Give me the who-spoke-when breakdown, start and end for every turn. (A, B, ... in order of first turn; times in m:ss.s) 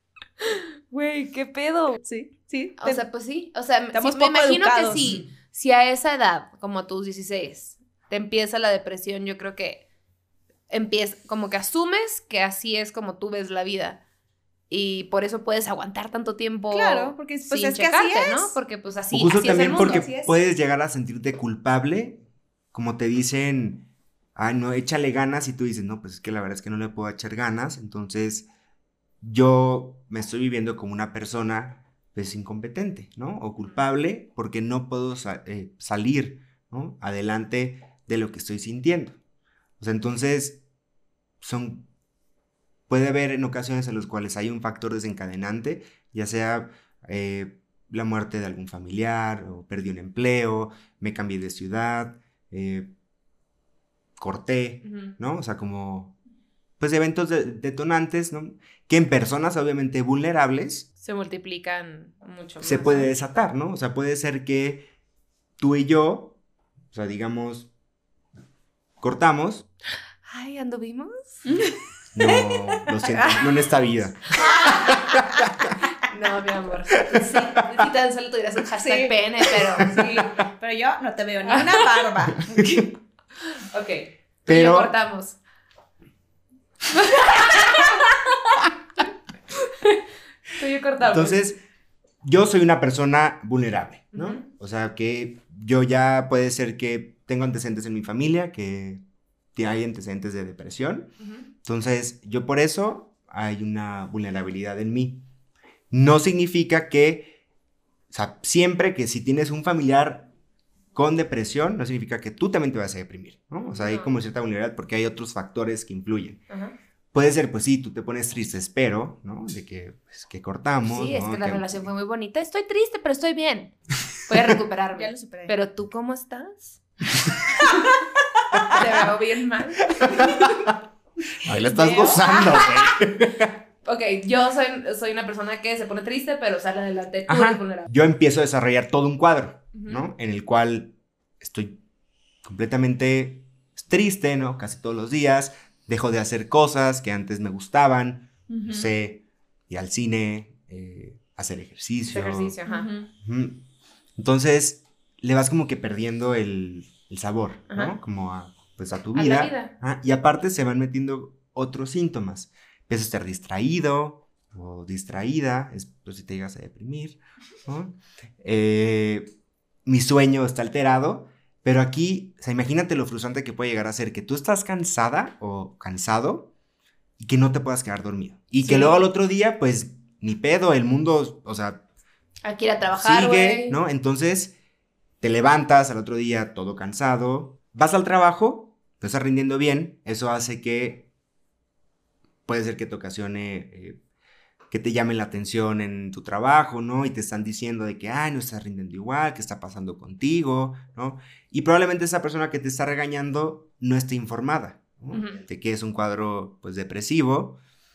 0:00.4-0:02.0 A
0:02.0-0:03.0 B
0:02.8-0:09.8 A
0:03.9-0:05.1 B
0:10.7-0:14.0 A
0:14.7-0:20.0 A
0:16.7-0:18.6 B
0:19.1-0:22.2 C
0:19.4-0:20.4 B
0:22.7-0:28.5 C
0:29.2-0:39.2 C
0:39.8-0:40.6 C
0:41.4-0:41.8 C
0:42.9-0:52.9 C
0:54.2-0:56.1 C
0:54.8-0:55.1 A
0:56.8-1:00.8 C
1:01.0-1:03.1 A
1:02.6-1:04.9 C
1:05.6-1:06.3 C
1:06.9-1:07.7 C
1:09.0-1:09.7 C
1:10.3-1:11.4 A
1:11.5-1:12.9 B
1:12.1-1:15.4 C
1:13.1-1:13.4 A
1:14.4-1:15.0 A
1:16.0-1:20.0 A
1:18.8-1:19.1 B
1:19.8-1:22.9 B
1:21.5-1:22.0 A
1:23.5-1:25.4 A
1:24.5-1:24.9 C
1:26.9-1:28.6 A
1:30.6-1:31.4 A
1:31.0-1:31.6 C
1:32.2-1:39.0 C
1:34.1-1:34.4 A
1:39.5-1:41.1 C
1:41.6-1:45.2 C
1:45.9-1:47.3 C
1:48.1-1:50.3 C
1:50.9-1:56.4 C
1:53.8-1:54.1 A
1:57.1-2:01.9 C
2:00.8-2:03.7 A
2:04.3-2:06.8 A
2:05.0-2:05.5 B
2:08.7-2:10.6 A
2:10.1-2:10.7 C
2:11.4-2:13.5 C
2:11.5-2:12.6 B
2:13.8-2:17.9 A
2:17.3-2:21.8 C
2:19.7-2:20.0 A
2:22.4-2:32.6 C
2:28.5-2:28.9 B
2:32.1-2:32.9 A
2:32.7-2:33.1 B
2:33.2-2:33.6 C
2:34.2-2:49.3 C
2:39.1-2:39.7 A
2:49.8-2:56.5 C
2:57.2-3:01.8 C
2:58.6-2:59.0 A
3:02.4-3:03.8 A
3:02.9-3:04.5 C
3:05.2-3:11.1 C
3:12.5-3:14.0 C
3:14.7-3:27.6 C
3:25.1-3:25.4 A